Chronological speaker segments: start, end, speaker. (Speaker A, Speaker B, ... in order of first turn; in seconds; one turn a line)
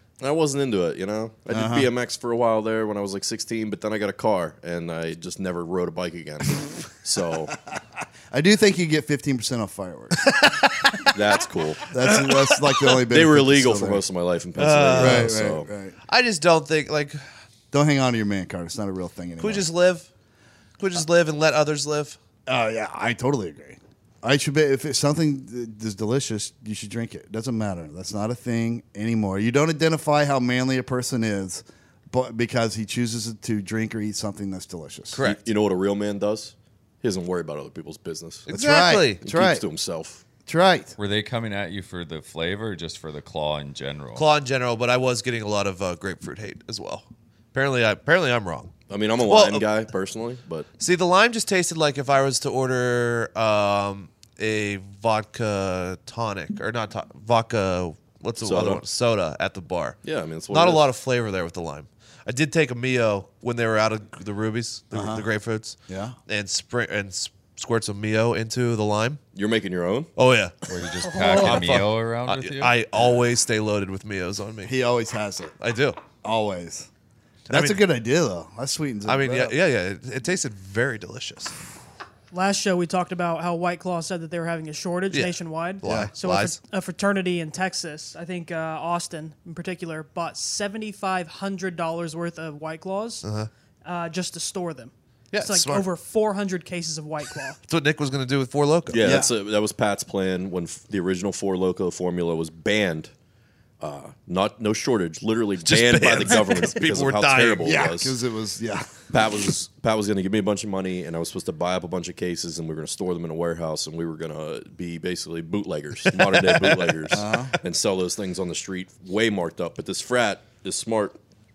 Speaker A: 0.2-7.5
Speaker B: 1.5-1.9
Speaker B: 8.3-10.5
Speaker C: 10.2-11.1
Speaker A: 11.1-11.8
Speaker B: 11.9-14.0
Speaker C: 12.1-12.5
Speaker A: 13.1-15.7
Speaker C: 14.6-15.3
Speaker B: 15.0-15.9
Speaker C: 16.1-17.2
Speaker B: 17.7-19.7
Speaker C: 19.4-20.1
Speaker C: 20.8-22.2
Speaker B: 22.4-35.2
Speaker C: 35.1-35.4
Speaker A: 35.2-38.5
Speaker C: 38.5-39.2
Speaker B: 38.5-39.6
Speaker A: 39.2-40.2
Speaker B: 40.5-41.0
Speaker D: 41.0-44.2
Speaker C: 44.1-49.7
Speaker A: 48.9-50.7
Speaker C: 50.8-60.0
Speaker A: 58.4-58.8
Speaker A: 60.0-60.8
Speaker C: 60.5-69.2
Speaker B: 64.9-65.2
Speaker B: 65.9-66.2
Speaker A: 69.3-70.1
Speaker C: 70.2-70.5
Speaker D: 70.7-72.7
Speaker E: 71.0-71.7
Speaker C: 71.2-74.7
Speaker B: 74.6-75.5
Speaker C: 75.6-76.0
Speaker B: 76.2-76.9
Speaker C: 77.5-77.8
Speaker B: 77.5-79.5
Speaker C: 79.1-81.5
Speaker E: 82.3-93.2
Speaker C: 85.1-86.6
Speaker B: 85.8-86.1
Speaker C: 93.2-93.5
Speaker E: 93.8-97.6
Speaker C: 95.3-95.9
Speaker C: 97.7-99.1
Speaker A: 98.9-103.1
Speaker B: 98.9-99.3
Speaker A: 103.8-108.2
Speaker C: 105.6-107.8
Speaker B: 107.6-109.5
Speaker A: 109.1-121.2
Speaker B: 117.1-117.5